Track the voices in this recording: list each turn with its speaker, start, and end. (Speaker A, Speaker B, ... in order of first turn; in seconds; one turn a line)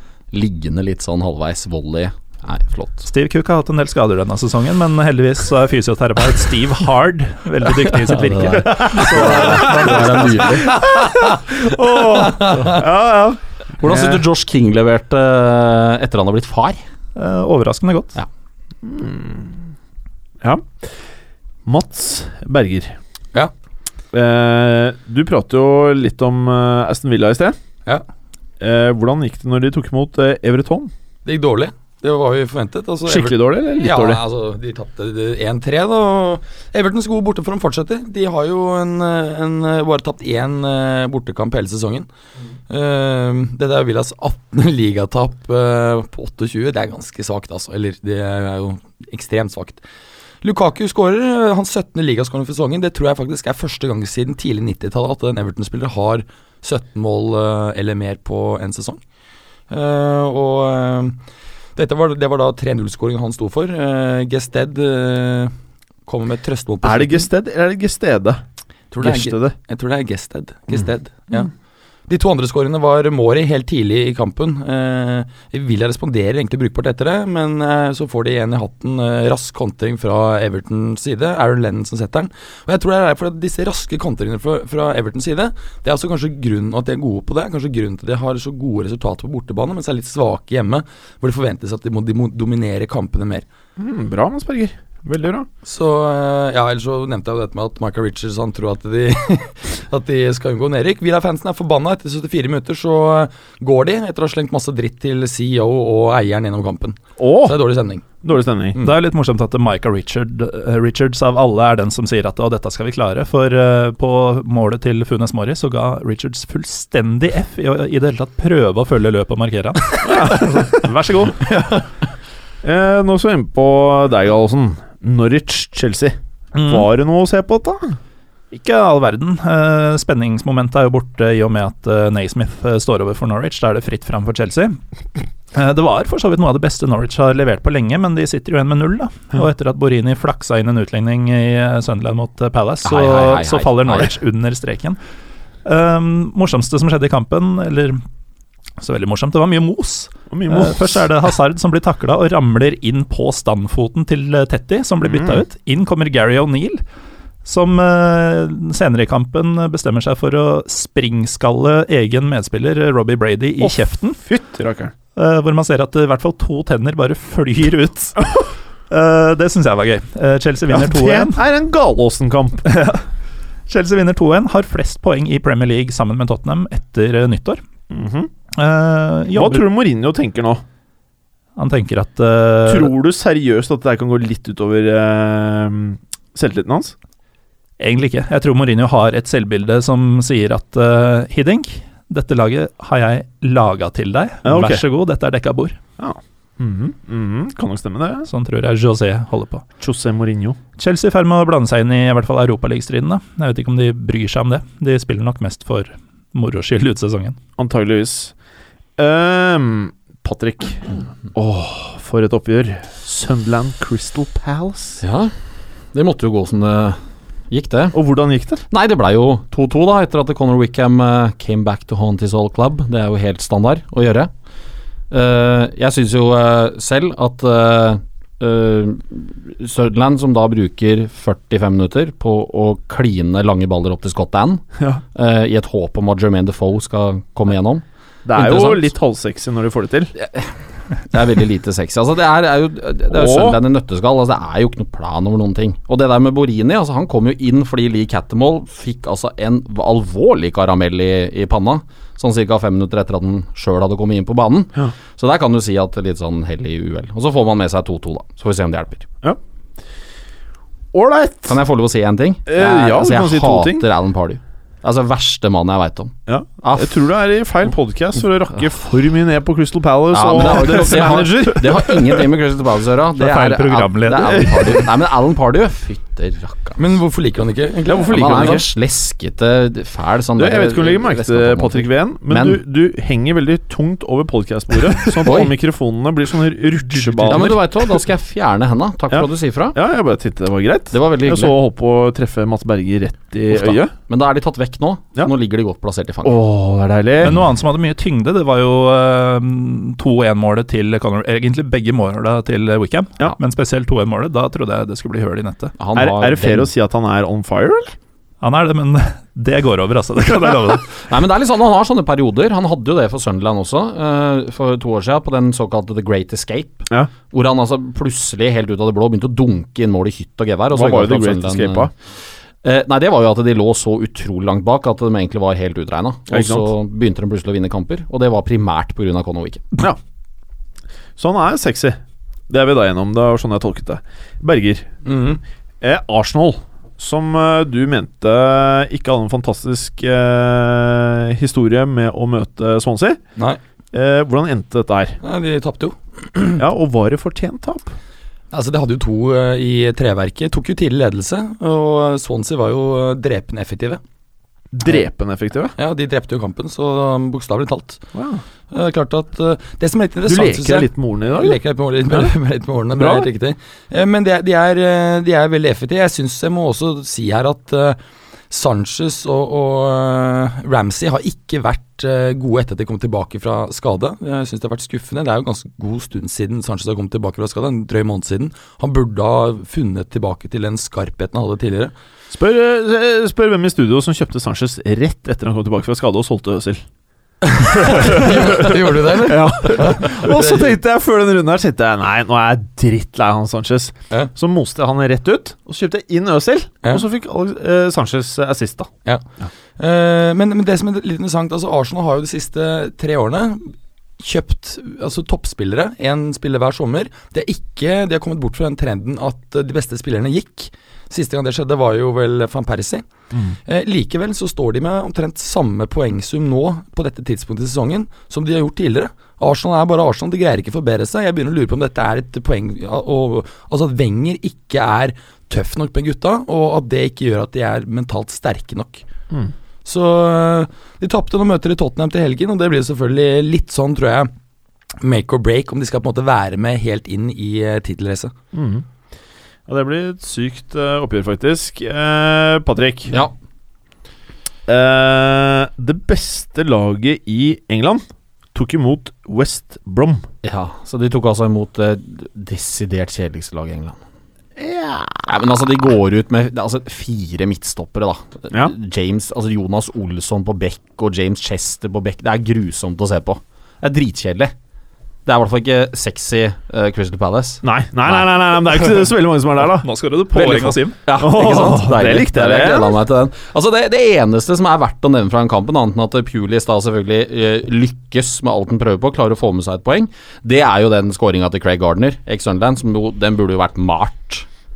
Speaker A: 0.3-3.1
Speaker B: 3.0-10.2
Speaker A: 8.1-10.7
Speaker C: 8.8-13.4
Speaker D: 12.0-12.8
Speaker A: 13.8-16.8
Speaker B: 17.1-18.2
Speaker C: 18.8-19.6
Speaker C: 20.4-20.9
Speaker C: 21.6-22.9
Speaker C: 24.1-27.6
Speaker C: 28.6-30.9
Speaker D: 31.2-42.1
Speaker C: 33.1-34.2
Speaker D: 42.7-49.8
Speaker D: 50.4-59.0
Speaker D: 59.7-61.1
Speaker D: 61.8-65.5
Speaker D: 66.0-67.2
Speaker C: 66.8-68.4
Speaker D: 68.9-71.5
Speaker C: 69.0-69.5
Speaker D: 72.1-93.4
Speaker C: 93.8-95.5
Speaker D: 95.6-108.0
Speaker C: 107.2-107.6
Speaker C: 108.2-108.8
Speaker B: 108.8-121.5
Speaker C: 120.0-121.3
Speaker C: 122.6-128.0
Speaker B: 126.5-126.9
Speaker B: 128.5-134.8
Speaker B: 135.5-145.0
Speaker A: 142.8-144.1
Speaker B: 145.6-148.0
Speaker B: 148.8-156.8
Speaker C: 150.3-151.0
Speaker C: 155.1-155.4
Speaker B: 157.4-164.2
Speaker C: 163.6-164.9
Speaker B: 165.2-168.3
Speaker B: 168.9-171.4
Speaker C: 170.7-172.6
Speaker B: 172.6-173.0
Speaker B: 173.7-177.6
Speaker C: 177.9-178.3
Speaker B: 178.5-179.6
Speaker C: 179.3-180.6
Speaker B: 181.6-182.9
Speaker C: 182.7-186.9
Speaker B: 187.8-195.8
Speaker C: 194.4-194.8
Speaker C: 196.0-198.3
Speaker B: 198.3-199.6
Speaker C: 199.8-200.6
Speaker B: 200.8-207.4
Speaker C: 207.6-208.3
Speaker C: 209.0-215.0
Speaker A: 215.0-215.3
Speaker A: 215.9-217.0
Speaker A: 217.5-218.0
Speaker C: 217.9-218.6
Speaker A: 218.7-224.3
Speaker A: 225.1-234.6
Speaker A: 235.1-237.8
Speaker C: 238.2-240.1
Speaker A: 238.3-238.9
Speaker A: 240.2-240.5
Speaker A: 241.1-259.1
Speaker C: 243.1-243.6
Speaker C: 260.9-261.6
Speaker A: 261.5-267.0
Speaker C: 262.5-263.8
Speaker C: 266.3-272.2
Speaker A: 270.1-276.8
Speaker B: 273.1-274.8
Speaker D: 276.8-278.6
Speaker C: 277.9-278.6
Speaker A: 278.1-282.6
Speaker C: 280.4-288.0
Speaker A: 285.1-285.5
Speaker B: 287.0-287.6
Speaker A: 287.3-289.8
Speaker C: 289.1-293.9
Speaker A: 290.9-291.5
Speaker A: 293.5-296.4
Speaker C: 296.2-297.4
Speaker B: 297.2-305.7
Speaker A: 305.8-306.7
Speaker C: 305.9-307.9
Speaker B: 308.4-310.9
Speaker A: 310.9-321.9
Speaker C: 320.7-321.9
Speaker A: 322.6-329.6
Speaker C: 326.3-326.7
Speaker C: 331.2-334.9
Speaker D: 335.1-335.4
Speaker C: 335.8-343.2
Speaker C: 343.9-345.2
Speaker D: 345.2-346.6
Speaker C: 346.6-347.9
Speaker D: 348.5-354.0
Speaker C: 354.7-355.7
Speaker D: 355.8-358.0
Speaker C: 358.1-358.4
Speaker D: 358.7-368.0
Speaker C: 360.2-362.3
Speaker C: 362.9-363.3
Speaker D: 368.5-381.9
Speaker C: 382.3-386.8
Speaker D: 387.5-390.7
Speaker C: 387.7-398.9
Speaker D: 399.8-413.0
Speaker D: 413.6-429.0
Speaker D: 429.8-434.3
Speaker D: 435.0-438.3
Speaker C: 438.5-438.8
Speaker C: 439.7-443.1
Speaker C: 444.7-448.0
Speaker C: 448.5-450.2
Speaker A: 450.4-454.0
Speaker C: 454.6-455.3
Speaker A: 455.3-464.5
Speaker A: 465.2-468.2
Speaker C: 467.6-473.0
Speaker B: 469.8-471.0
Speaker A: 471.1-484.4